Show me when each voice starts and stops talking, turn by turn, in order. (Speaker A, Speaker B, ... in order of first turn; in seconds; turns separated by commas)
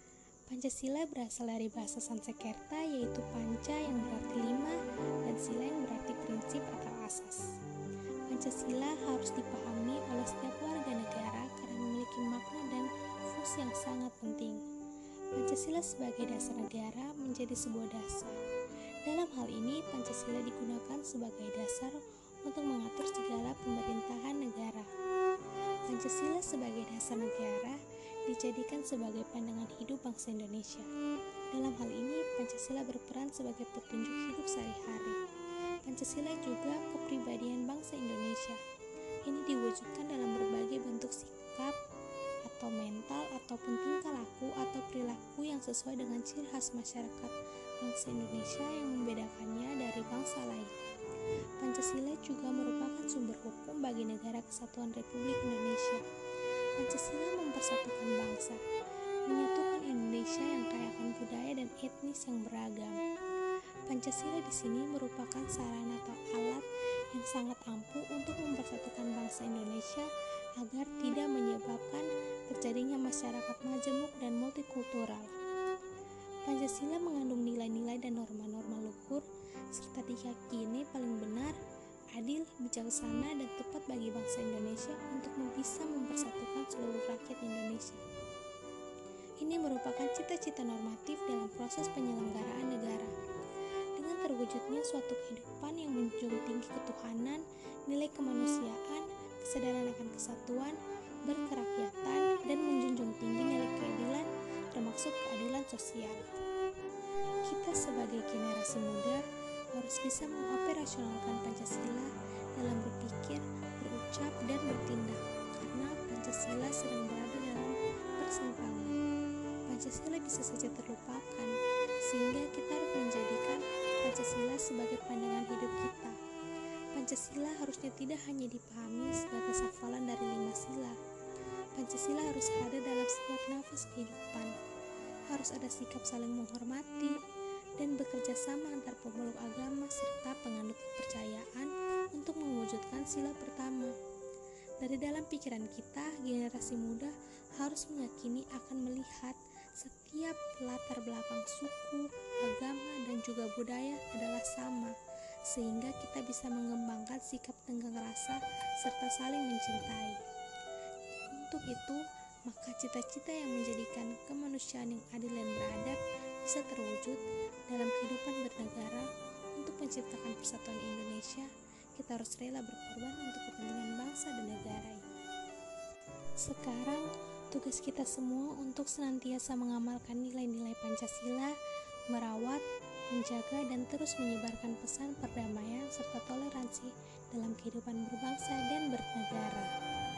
Speaker A: 0.5-7.4, Speaker A: 8.3-14.6, Speaker A: 15.3-18.4, Speaker A: 19.0-24.9, Speaker A: 25.9-30.9, Speaker A: 31.5-35.2, Speaker A: 35.8-38.6, Speaker A: 39.2-41.8, Speaker A: 42.5-50.7, Speaker A: 51.6-56.0, Speaker A: 56.8-58.6, Speaker A: 59.3-63.0, Speaker A: 63.9-75.3, Speaker A: 76.5-81.6, Speaker A: 82.1-88.0, Speaker A: 89.4-93.1, Speaker A: 94.0-106.4, Speaker A: 107.4-109.2, Speaker A: 109.7-119.0, Speaker A: 119.7-126.2, Speaker A: 126.9-131.0, Speaker A: 131.8-134.5, Speaker A: 135.3-137.2, Speaker A: 137.8-143.9, Speaker A: 144.8-154.9, Speaker A: 155.5-160.2, Speaker A: 161.3-175.0, Speaker A: 176.4-181.5, Speaker A: 182.1-189.7